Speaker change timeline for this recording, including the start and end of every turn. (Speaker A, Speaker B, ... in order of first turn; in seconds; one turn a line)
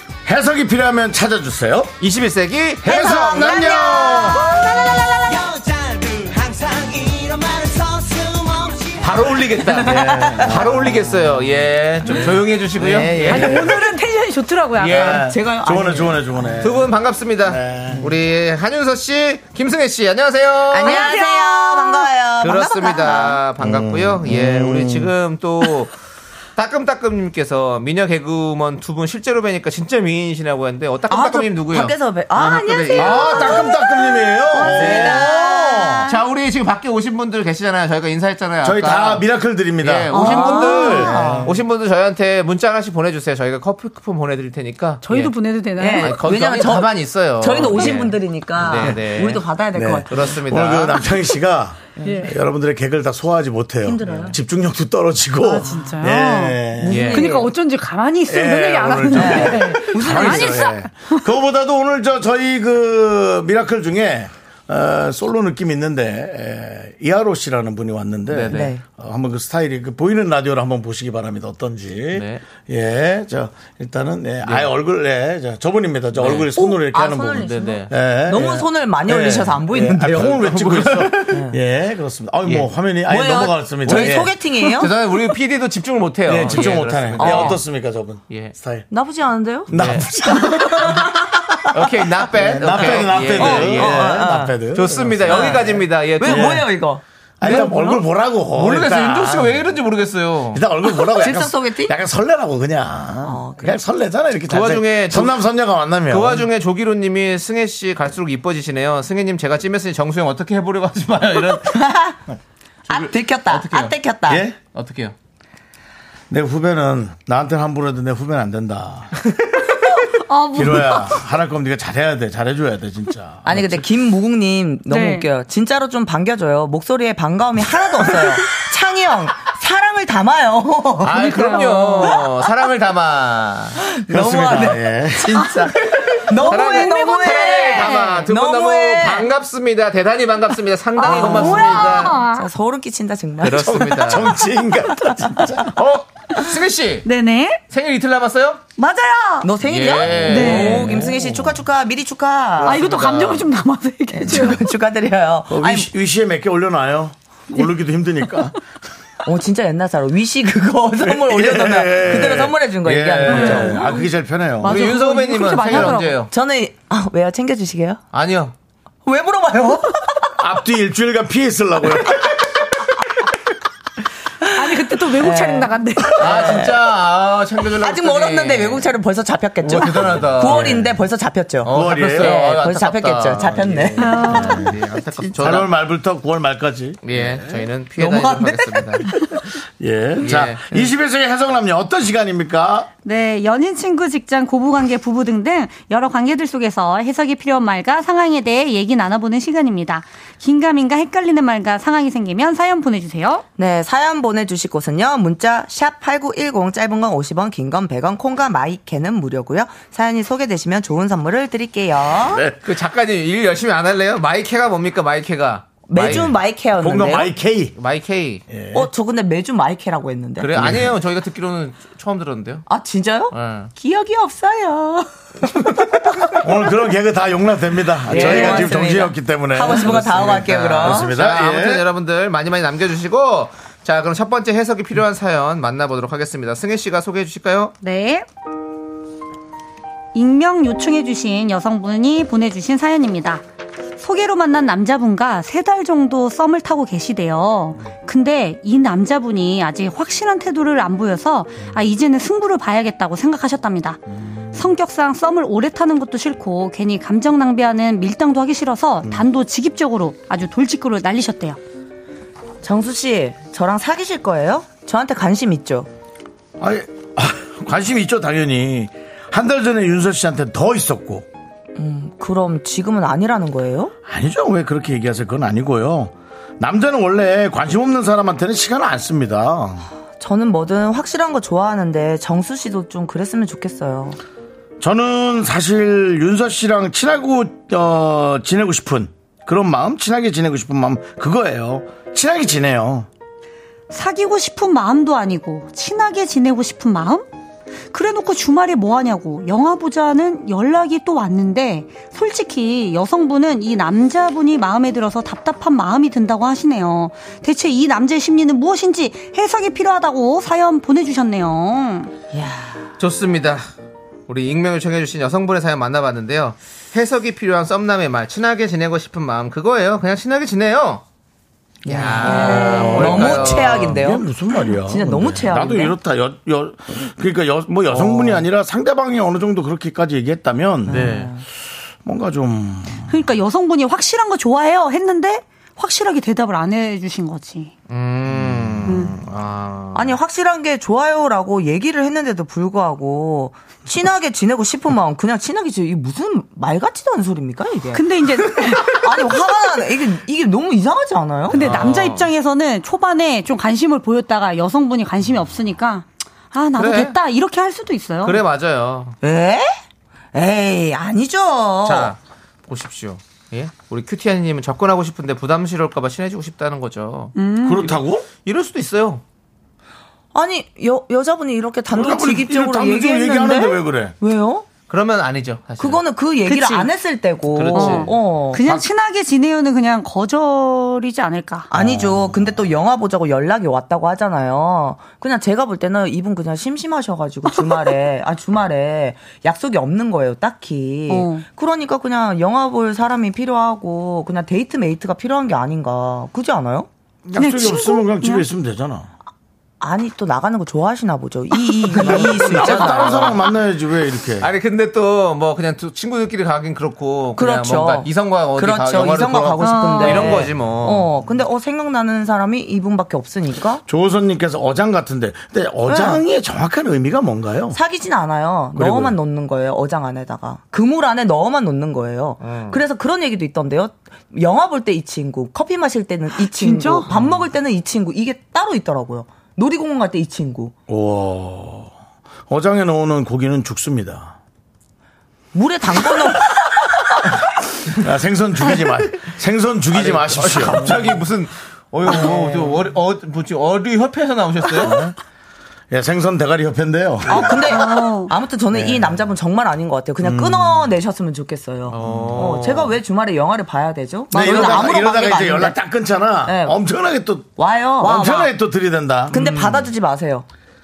Speaker A: 0.2-1.9
Speaker B: 2.0-3.9
Speaker A: 2.8-4.5
Speaker C: 2.8-4.6
Speaker D: 4.5-5.0
Speaker E: 5.2-9.5
Speaker B: 9.0-13.8
Speaker C: 9.8-10.4
Speaker A: 9.8-11.4
Speaker C: 12.8-13.8
Speaker A: 12.8-13.8
Speaker D: 13.3-15.1
Speaker B: 14.8-15.3
Speaker A: 14.9-18.1
Speaker C: 14.9-16.6
Speaker B: 16.6-21.2
Speaker C: 20.7-23.4
Speaker D: 20.9-22.1
Speaker B: 22.4-25.9
Speaker A: 23.6-25.1
Speaker B: 26.6-33.7
Speaker C: 31.1-36.2
Speaker A: 32.9-36.1
Speaker B: 34.6-35.5
Speaker B: 36.0-39.2
Speaker A: 38.6-41.6
Speaker B: 39.8-45.3
Speaker C: 40.1-41.6
Speaker D: 45.0-46.2
Speaker C: 45.8-50.4
Speaker B: 46.0-49.5
Speaker A: 49.7-57.1
Speaker B: 50.1-51.1
Speaker C: 52.0-52.3
Speaker D: 52.0-52.4
Speaker C: 53.9-54.3
Speaker D: 55.4-61.2
Speaker C: 56.8-57.5
Speaker B: 56.8-57.3
Speaker A: 58.2-84.3
Speaker C: 59.1-60.7
Speaker B: 68.3-68.8
Speaker C: 68.5-68.8
Speaker B: 72.1-72.4
Speaker B: 74.4-74.7
Speaker B: 76.2-76.5
Speaker C: 76.4-80.3
Speaker B: 77.3-77.9
Speaker B: 80.0-81.4
Speaker B: 82.4-82.7
Speaker C: 83.1-85.0
Speaker B: 83.8-87.6
Speaker A: 86.3-88.9
Speaker C: 87.2-87.6
Speaker C: 88.9-89.7
Speaker A: 89.7-91.1
Speaker B: 89.7-90.9
Speaker C: 90.5-91.1
Speaker B: 91.7-96.6
Speaker A: 92.3-96.7
Speaker C: 92.6-94.5
Speaker C: 95.2-97.9
Speaker A: 97.4-99.6
Speaker B: 98.5-100.6
Speaker A: 100.5-106.5
Speaker C: 100.9-101.9
Speaker C: 103.2-103.8
Speaker B: 104.5-105.4
Speaker B: 106.1-111.8
Speaker C: 111.6-112.2
Speaker C: 112.9-114.4
Speaker B: 112.9-114.0
Speaker A: 114.3-114.6
Speaker B: 114.7-115.1
Speaker A: 116.3-119.2
Speaker D: 120.1-121.2
Speaker A: 120.5-123.8
Speaker C: 123.4-131.4
Speaker D: 124.9-125.2
Speaker B: 131.0-133.8
Speaker D: 131.2-132.2
Speaker C: 133.9-139.3
Speaker A: 134.1-136.0
Speaker B: 136.4-142.2
Speaker D: 136.5-138.2
Speaker D: 141.0-142.5
Speaker C: 141.0-144.2
Speaker B: 143.4-144.4
Speaker A: 143.7-145.7
Speaker B: 145.7-147.1
Speaker D: 147.0-147.6
Speaker B: 147.7-148.6
Speaker D: 148.8-149.5
Speaker C: 149.4-152.9
Speaker B: 149.6-151.4
Speaker A: 150.2-151.5
Speaker D: 150.2-150.9
Speaker B: 152.6-153.5
Speaker D: 152.6-154.6
Speaker C: 154.1-155.9
Speaker A: 155.5-158.6
Speaker C: 159.2-163.9
Speaker A: 161.0-164.8
Speaker D: 163.3-164.1
Speaker B: 163.3-163.7
Speaker D: 164.6-166.2
Speaker B: 164.6-166.3
Speaker C: 165.7-168.0
Speaker B: 168.1-168.5
Speaker C: 169.0-170.3
Speaker A: 170.4-172.6
Speaker C: 174.6-176.9
Speaker D: 174.6-176.2
Speaker B: 176.2-178.9
Speaker C: 177.7-184.6
Speaker B: 179.6-180.9
Speaker A: 180.4-180.9
Speaker B: 181.6-185.7
Speaker A: 181.7-182.4
Speaker D: 184.0-184.8
Speaker A: 184.2-184.6
Speaker A: 185.3-187.7
Speaker B: 187.0-189.1
Speaker C: 188.0-189.1
Speaker A: 189.8-192.9
Speaker B: 190.2-190.7
Speaker D: 193.0-203.4
Speaker C: 203.6-212.4
Speaker A: 212.2-212.6
Speaker B: 212.6-216.3
Speaker C: 215.9-217.3
Speaker A: 215.9-217.7
Speaker B: 217.7-218.4
Speaker A: 218.5-218.9
Speaker C: 218.7-220.6
Speaker B: 220.4-222.7
Speaker A: 220.5-220.9
Speaker C: 222.7-225.1
Speaker B: 223.3-223.7
Speaker A: 226.4-231.8
Speaker C: 228.1-231.1
Speaker B: 228.1-228.8
Speaker B: 229.8-237.7
Speaker D: 237.8-238.2
Speaker D: 240.1-243.4
Speaker D: 244.0-254.0
Speaker D: 254.5-261.6
Speaker C: 262.6-265.9
Speaker A: 266.6-271.3
Speaker C: 271.8-273.9
Speaker A: 274.1-279.9
Speaker C: 280.2-284.2
Speaker A: 284.8-293.1
Speaker D: 293.9-297.3
Speaker D: 297.9-312.1
Speaker C: 312.3-312.8
Speaker B: 313.0-313.6
Speaker B: 314.3-321.0
Speaker C: 321.8-325.9
Speaker B: 321.9-324.0
Speaker A: 322.2-331.4
Speaker B: 327.9-328.4
Speaker C: 330.9-331.4
Speaker B: 330.9-331.3
Speaker A: 332.0-333.3
Speaker D: 333.1-337.7
Speaker B: 337.9-340.2
Speaker A: 338.3-339.1
Speaker D: 338.9-339.1
Speaker C: 339.9-351.7
Speaker D: 347.9-349.0
Speaker B: 351.5-352.3
Speaker D: 351.5-358.4
Speaker B: 356.8-357.1
Speaker B: 358.2-359.2
Speaker C: 359.2-359.7
Speaker C: 360.3-362.1
Speaker B: 361.8-369.2
Speaker D: 367.3-367.9
Speaker A: 367.6-368.2
Speaker C: 370.3-374.6
Speaker A: 371.9-374.1
Speaker B: 374.9-376.0
Speaker C: 375.8-378.7
Speaker D: 376.5-376.9
Speaker B: 377.5-378.1
Speaker D: 377.7-381.7
Speaker A: 378.6-378.8
Speaker A: 381.7-382.6
Speaker C: 381.7-396.9
Speaker D: 391.1-391.4
Speaker A: 397.2-399.1
Speaker D: 397.3-398.4
Speaker C: 399.8-403.4
Speaker A: 401.9-404.5
Speaker B: 402.1-403.4
Speaker B: 404.4-411.1
Speaker C: 407.4-413.8
Speaker D: 409.6-410.5
Speaker A: 413.8-417.8
Speaker C: 415.9-416.2
Speaker C: 417.7-430.7
Speaker A: 418.7-419.1
Speaker B: 422.4-422.8
Speaker D: 426.4-427.1
Speaker A: 430.9-431.9
Speaker A: 432.5-434.4
Speaker C: 435.5-436.5
Speaker A: 437.9-441.2
Speaker B: 439.9-445.0
Speaker C: 442.1-442.7
Speaker A: 444.7-445.1
Speaker A: 445.9-447.9
Speaker C: 447.3-455.8
Speaker D: 447.6-448.3
Speaker A: 448.7-449.3
Speaker A: 450.2-450.9
Speaker B: 451.9-452.9
Speaker A: 452.0-452.4
Speaker A: 454.3-459.9
Speaker C: 456.4-456.8
Speaker C: 457.6-458.5
Speaker C: 459.3-460.4